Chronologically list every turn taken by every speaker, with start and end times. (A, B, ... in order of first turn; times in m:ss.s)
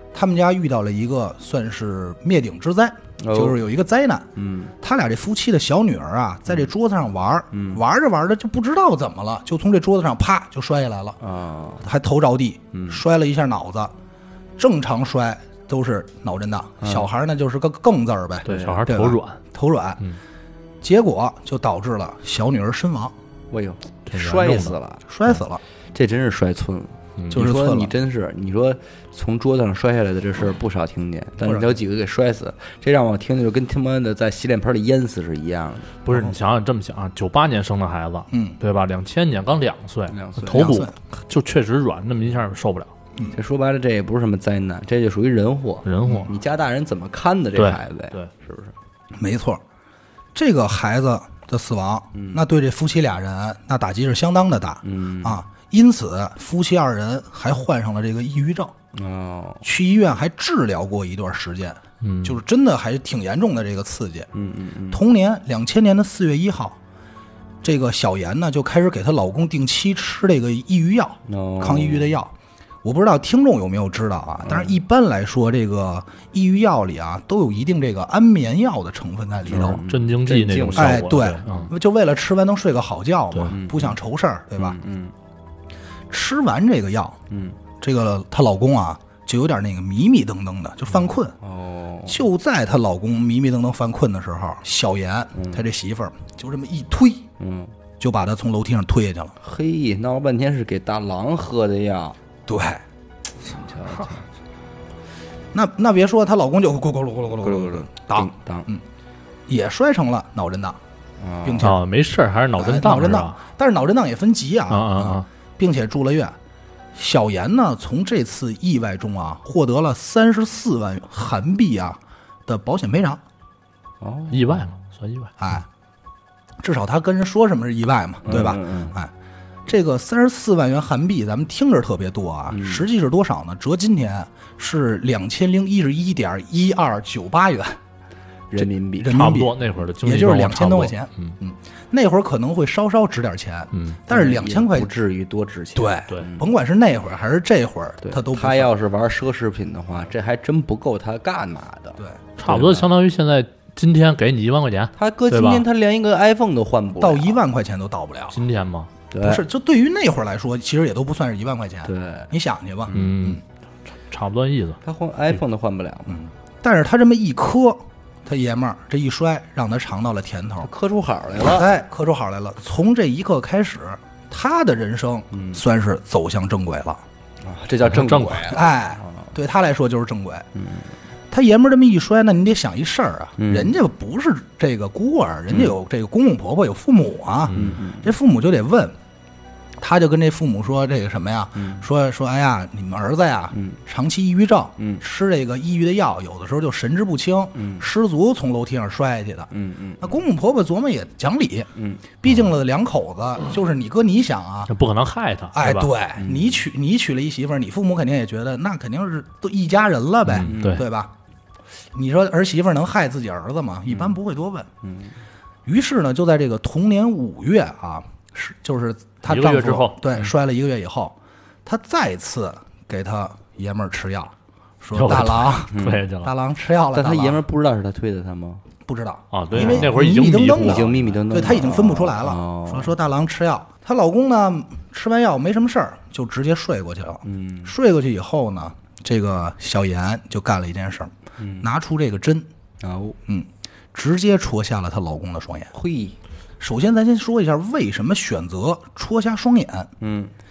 0:00.1-0:04.3 A
0:03.2-0:03.6 B
0:04.4-0:04.7 B
0:04.8-0:11.2 A
0:07.5-0:07.8 B
0:11.2-0:11.9 B
0:11.8-0:13.9 A
0:12.7-0:13.0 B
0:14.6-0:20.0 A
0:16.8-0:17.1 B
0:18.4-0:19.4 C
0:18.5-0:18.9 B
0:20.8-0:23.1 A
0:23.5-0:25.0 B
0:24.1-0:24.8 C
0:25.1-0:25.6 A
0:25.9-0:35.9 B
0:27.3-0:27.9 A
0:31.4-0:31.8 A
0:36.0-0:42.9 C
0:36.1-0:36.4 A
0:38.3-0:38.6 A
0:40.1-0:40.8 B
0:40.5-0:40.9 A
0:43.3-0:48.7 B
0:45.8-0:46.4 C
0:47.5-0:48.3 C
0:49.2-0:49.6 A
0:50.4-0:58.7 A
0:52.1-0:52.4 B
0:54.8-0:55.4 B
0:58.9-0:59.6 B
0:59.6-1:04.3 A
1:02.0-1:02.4 C
1:04.3-1:05.0 B
1:04.9-1:06.8 A
1:07.6-1:12.3 A
1:11.2-1:12.2 B
1:12.8-1:19.8 A
1:14.4-1:14.8 B
1:19.5-1:21.7 B
1:19.5-1:21.7 C
1:20.8-1:24.8 A
1:23.4-1:24.0 B
1:24.6-1:25.1 B
1:26.1-1:27.2 A
1:27.3-1:27.6 B
1:27.8-1:31.4 A
1:31.4-1:32.2 B
1:32.1-1:37.3 A
1:35.3-1:35.6 B
1:37.4-1:37.7 B
1:38.0-1:39.3 A
1:39.4-1:42.2 B
1:42.5-1:42.8 A
1:43.4-1:44.3 B
1:45.5-1:48.8 A
1:47.4-1:48.7 B
1:49.5-1:50.8 A
1:51.2-1:51.7 B
1:51.4-1:51.8 A
1:51.6-1:53.4 C
1:52.6-1:56.4 A
1:54.7-1:55.2 C
1:56.9-2:03.2 A
2:04.0-2:04.7 B
2:04.3-2:05.3 C
2:05.4-2:05.6 A
2:06.6-2:09.1 A
2:08.2-2:09.0 B
2:09.7-2:17.8 A
2:12.5-2:12.9 B
2:18.5-2:19.2 B
2:18.6-2:24.9 A
2:19.0-2:21.3 C
2:23.7-2:24.0 C
2:24.1-2:26.5 B
2:25.8-2:28.7 A
2:28.0-2:32.9 B
2:32.4-2:35.6 C
2:35.0-2:37.4 B
2:37.0-2:38.4 A
2:38.3-2:38.9 C
2:39.1-2:39.4 B
2:39.2-2:43.4 A
2:41.8-2:42.3 B
2:42.9-2:43.2 B
2:42.9-2:43.4 C
2:44.1-2:44.8 C
2:44.8-2:46.2 B
2:46.1-2:50.7 A
2:50.6-2:51.7 B
2:51.4-2:57.0 A
2:55.3-2:55.6 B
2:57.4-2:59.3 B
2:57.9-2:58.5 C
2:58.5-3:00.5 A
3:00.5-3:00.9 B
3:01.3-3:08.9 A
3:03.4-3:03.8 B
3:07.5-3:07.8 C
3:07.5-3:08.1 B
3:09.8-3:21.7 A
3:11.6-3:11.9 B
3:13.5-3:13.8 B
3:17.5-3:17.9 B
3:19.5-3:20.1 B
3:21.8-3:22.0 B
3:22.2-3:24.7 A
3:24.7-3:25.9 C
3:25.5-3:31.1 A
3:26.2-3:26.6 B
3:30.3-3:30.8 B
3:30.3-3:30.8 C
3:31.9-3:34.7 A
3:34.8-3:35.1 B
3:35.6-3:47.4 A
3:39.2-3:40.1 C
3:44.9-3:46.3 C
3:45.7-3:46.0 B
3:46.9-3:48.6 B
3:48.9-4:02.5 A
3:49.3-3:51.2 C
3:49.5-3:49.9 B
3:50.5-3:52.9 B
3:57.2-3:57.7 B
4:01.4-4:01.7 B
4:02.8-4:03.2 B
4:03.3-4:05.7 A
4:05.7-4:06.2 B
4:06.6-4:09.9 A
4:10.0-4:10.3 B